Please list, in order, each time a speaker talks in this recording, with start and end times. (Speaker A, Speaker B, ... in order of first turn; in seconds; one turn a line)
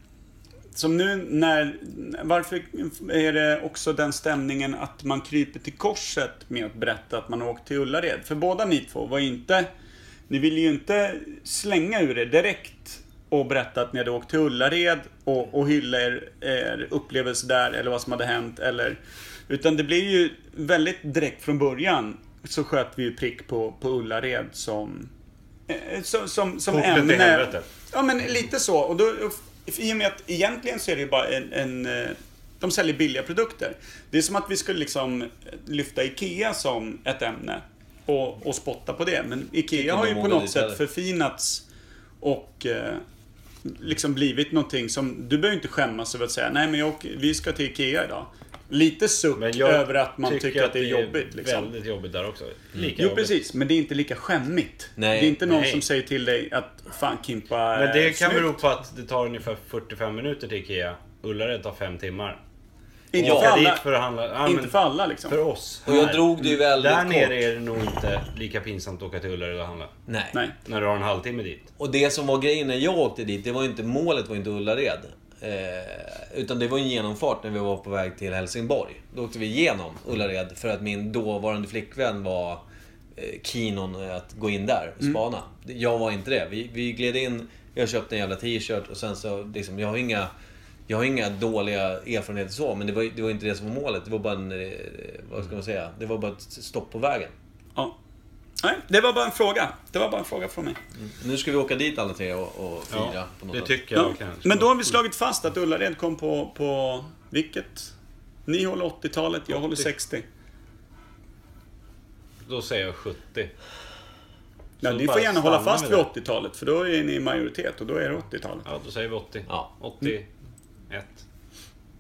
Speaker A: 0.7-9.7
Speaker A: 10.3-25.1
Speaker A: 25.7-41.6
Speaker B: 26.7-27.7
Speaker C: 39.7-40.8
Speaker A: 42.2-43.0
Speaker A: 43.6-51.7
Speaker B: 49.4-53.4
Speaker A: 52.8-58.6
Speaker C: 55.0-55.4
Speaker B: 55.4-55.8
Speaker B: 57.7-62.4
Speaker A: 63.1-63.9
Speaker C: 63.2-63.5
Speaker B: 63.2-69.9
Speaker A: 64.4-65.4
Speaker C: 65.9-67.5
Speaker C: 70.1-70.4
Speaker B: 70.7-71.7
Speaker C: 71.8-82.6
Speaker C: 83.2-90.3
Speaker C: 90.9-97.3
Speaker A: 98.6-100.8
Speaker C: 101.1-103.7
Speaker B: 102.9-105.0
Speaker A: 103.9-107.9
Speaker A: 108.5-110.3
Speaker B: 112.5-113.5
Speaker B: 114.8-116.1
Speaker A: 114.8-118.7
Speaker B: 118.7-120.3
Speaker B: 120.9-121.2